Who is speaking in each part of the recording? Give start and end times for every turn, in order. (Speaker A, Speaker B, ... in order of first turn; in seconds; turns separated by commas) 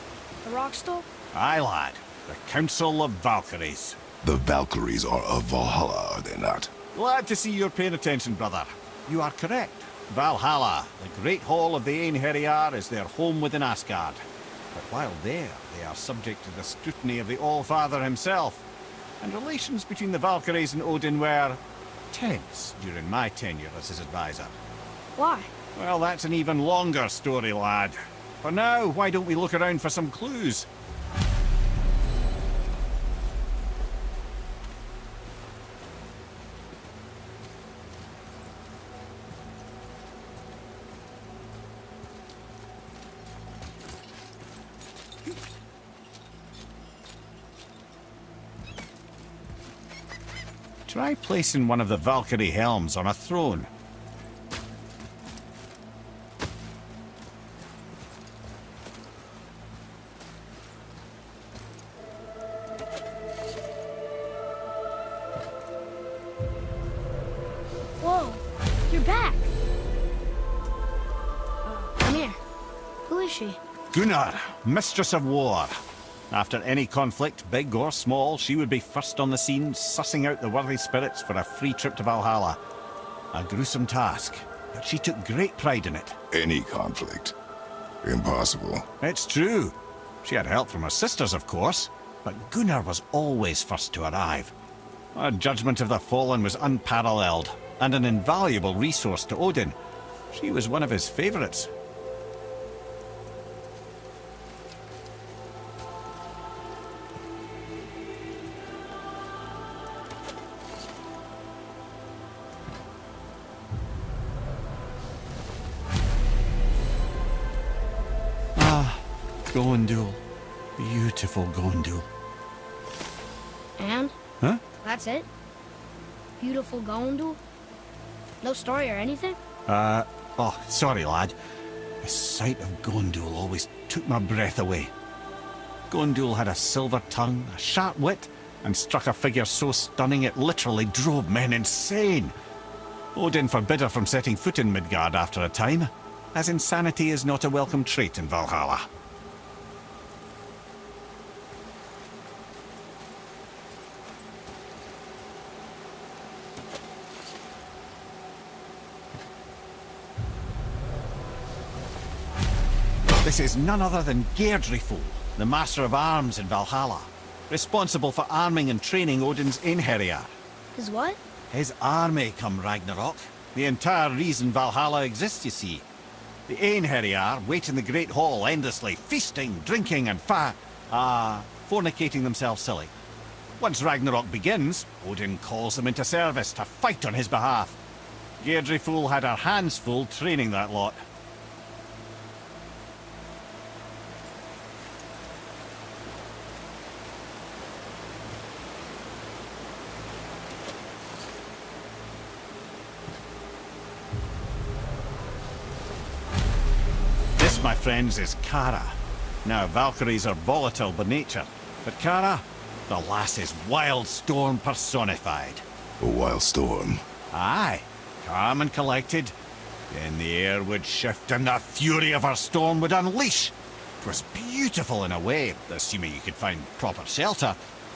Speaker A: 0.4-1.1, Speaker B: 1.3-4.0, Speaker C: 4.2-6.7, Speaker B: 6.9-18.7, Speaker B: 19.2-24.6, Speaker A: 25.1-25.5, Speaker B: 25.7-30.7, Speaker B: 50.9-53.7, Speaker A: 68.0-69.5, Speaker A: 71.6-72.4, Speaker A: 73.0-73.6, Speaker B: 73.9-82.6, Speaker B: 83.3-86.2, Speaker C: 86.3-87.3, Speaker C: 88.0-88.9, Speaker B: 89.0-94.5, Speaker B: 95.1-99.8, Speaker B: 100.3-101.7, Speaker B: 118.5-120.2, Speaker B: 120.8-122.1, Speaker A: 123.8-124.1, Speaker A: 124.8-125.3, Speaker A: 126.4-127.4, Speaker A: 128.4-129.4, Speaker B: 129.7-131.3, Speaker B: 132.0-134.9, Speaker B: 135.9-142.3, Speaker B: 143.1-148.9, Speaker B: 163.2-170.3, Speaker A: 170.7-171.2, Speaker B: 171.5-175.8, Speaker B: 176.5-182.9, Speaker B: 183.6-187.8, Speaker B: 188.4-191.0, Speaker B: 207.3-215.6, Speaker C: 216.0-217.0, Speaker B: 217.3-219.3, Speaker B: 219.9-227.6